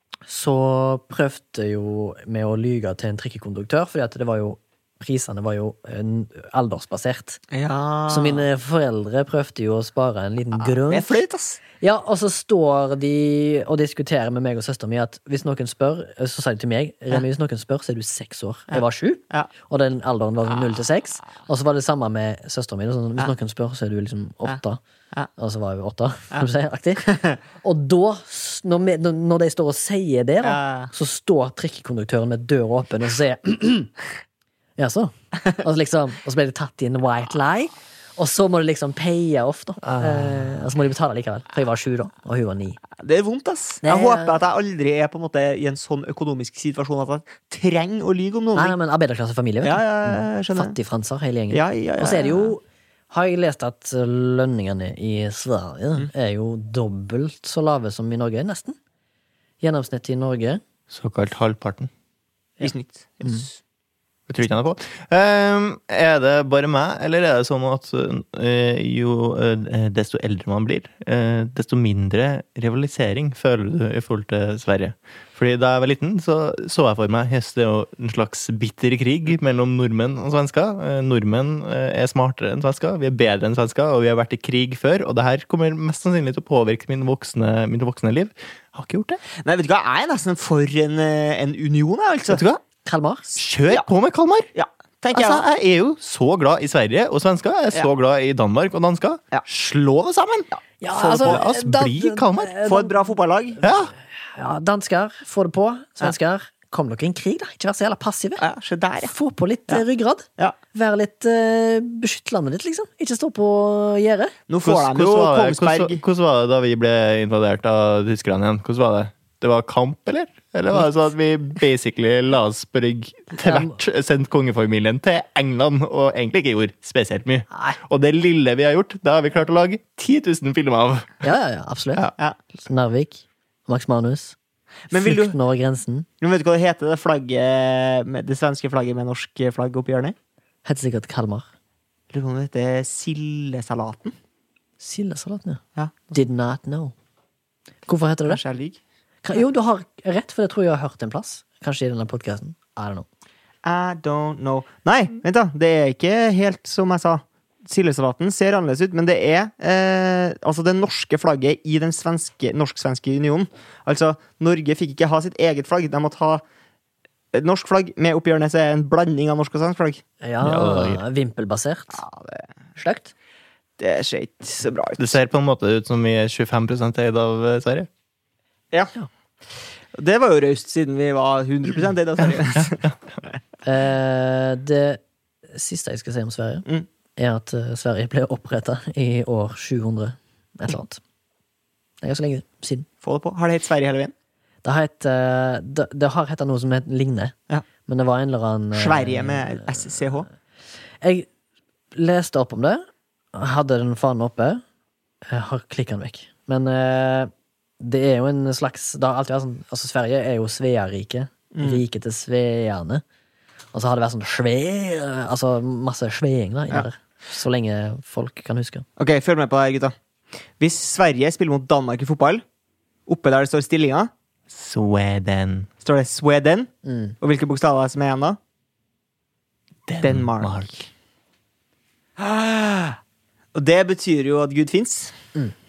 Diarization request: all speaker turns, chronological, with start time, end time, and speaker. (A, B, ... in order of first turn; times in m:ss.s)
0:00.3-0:07.4 A
0:07.5-0:08.5 B
0:08.1-0:11.2 A
0:10.6-0:11.6 B
0:11.8-0:24.8 A
0:18.7-0:19.5 B
0:25.4-0:27.1 A
0:27.0-0:27.4 B
0:27.6-0:33.9 A
0:30.4-0:30.9 B
0:34.8-0:42.8 A
0:39.8-0:40.5 C
0:43.0-0:48.8 B
0:43.8-0:44.4 A
0:48.6-0:58.8 A
0:49.6-0:50.8 B
0:51.5-0:52.5 B
0:59.6-1:00.6 A
1:00.9-1:01.9 C
1:02.6-1:03.6 B
1:04.3-1:29.2 C
1:29.4-1:32.4 B
1:32.3-1:32.6 C
1:32.8-1:33.2 A
1:33.4-1:34.5 C
1:34.6-1:35.4 B
1:35.1-1:42.5 C
1:40.5-1:41.4 B
1:40.8-1:43.1 A
1:42.6-1:43.6 B
1:43.6-1:43.9 C
1:43.7-1:48.4 A
1:48.4-1:49.1 B
1:49.0-1:54.4 A
1:54.5-1:56.0 B
1:54.6-2:11.2 C
2:03.4-2:03.8 A
2:07.5-2:07.8 A
2:11.2-2:12.1 A
2:12.6-2:14.4 A
2:14.9-2:15.4 B
2:14.9-2:16.1 A
2:16.2-2:20.2 B
2:20.6-2:21.5 A
2:22.1-2:24.1 B
2:24.8-2:25.6 A
2:25.8-2:26.1 B
2:26.1-2:26.9 A
2:27.9-2:28.4 A
2:28.3-2:28.8 B
2:29.2-2:33.1 A
2:33.6-2:46.4 B
2:47.3-2:50.0 B
2:50.2-2:52.0 A
2:50.4-2:51.0 C
2:52.0-2:52.5 B
2:52.8-2:53.1 A
2:53.8-2:55.2 B
2:55.0-2:57.9 C
2:59.9-3:02.9 B
3:03.6-3:05.0 A
3:05.5-3:06.6 A
3:07.2-3:11.0 A
3:12.0-3:12.9 A
3:13.0-3:14.1 B
3:14.6-3:17.4 A
3:17.9-3:19.9 A
3:18.8-3:20.3 B
3:21.0-3:21.3 A
3:22.0-3:24.6 A
3:25.3-3:33.0 A
3:31.5-3:31.8 B
3:33.7-3:38.8 A
3:39.0-3:40.0 B
3:40.6-3:42.4 B
3:43.1-3:44.1 B
3:44.5-3:45.7 C
3:45.8-3:46.7 B
3:46.8-3:47.2 A
3:47.2-3:48.4 B
3:49.9-3:50.9 C
3:50.0-3:50.7 B
3:52.2-3:53.0 B
3:53.6-3:55.2 B